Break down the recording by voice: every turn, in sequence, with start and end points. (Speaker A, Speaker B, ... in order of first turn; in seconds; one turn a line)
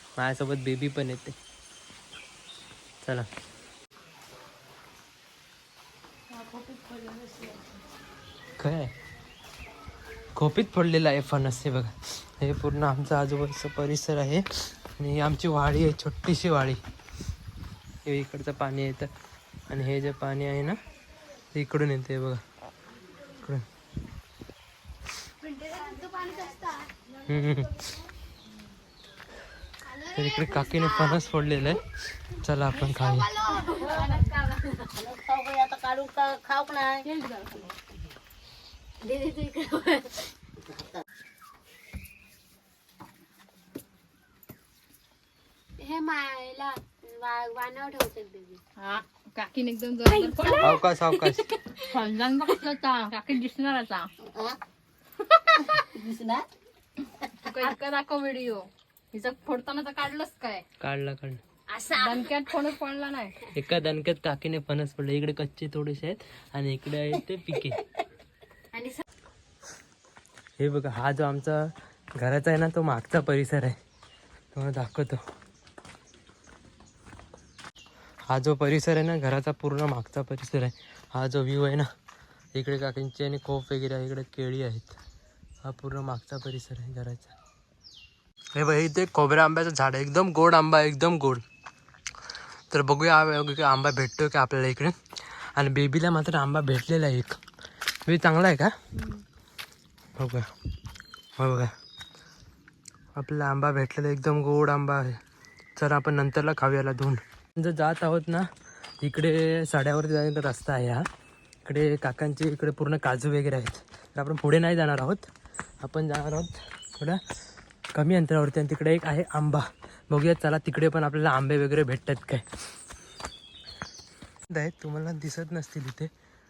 Speaker A: 0.2-1.4
Speaker A: 3.0-3.3
Speaker B: 6.3-7.6
Speaker A: 8.6-8.9
Speaker A: 10.3-16.8
Speaker A: 18.0-19.1
Speaker A: 19.7-20.8
Speaker A: 21.5-22.4
Speaker A: 23.4-23.6
Speaker B: 25.4-26.9
Speaker A: 27.2-28.0
Speaker A: 30.0-33.3
Speaker B: 30.1-31.2
Speaker B: 33.0-37.1
Speaker C: 33.5-34.0
Speaker B: 39.0-40.3
Speaker B: 45.8-48.6
Speaker C: 48.8-50.8
Speaker B: 50.1-51.9
Speaker A: 50.6-51.5
Speaker C: 51.9-54.1
Speaker B: 54.3-54.6
Speaker B: 55.7-56.5
Speaker C: 57.4-60.6
Speaker A: 60.8-61.4
Speaker B: 61.7-62.3
Speaker C: 61.9-63.3
Speaker A: 63.5-67.8
Speaker B: 68.7-69.0
Speaker A: 70.6-73.8
Speaker A: 74.5-75.2
Speaker A: 78.3-81.9
Speaker A: 82.5-85.0
Speaker A: 85.6-87.3
Speaker A: 88.5-91.4
Speaker A: 92.7-97.4
Speaker A: 98.0-98.7
Speaker A: 100.2-100.5
Speaker A: 101.4-101.7
Speaker A: 103.1-105.2
Speaker A: 105.8-111.0
Speaker A: 111.6-115.3
Speaker A: 115.8-117.2
Speaker A: 117.9-122.5
Speaker A: 124.5-126.1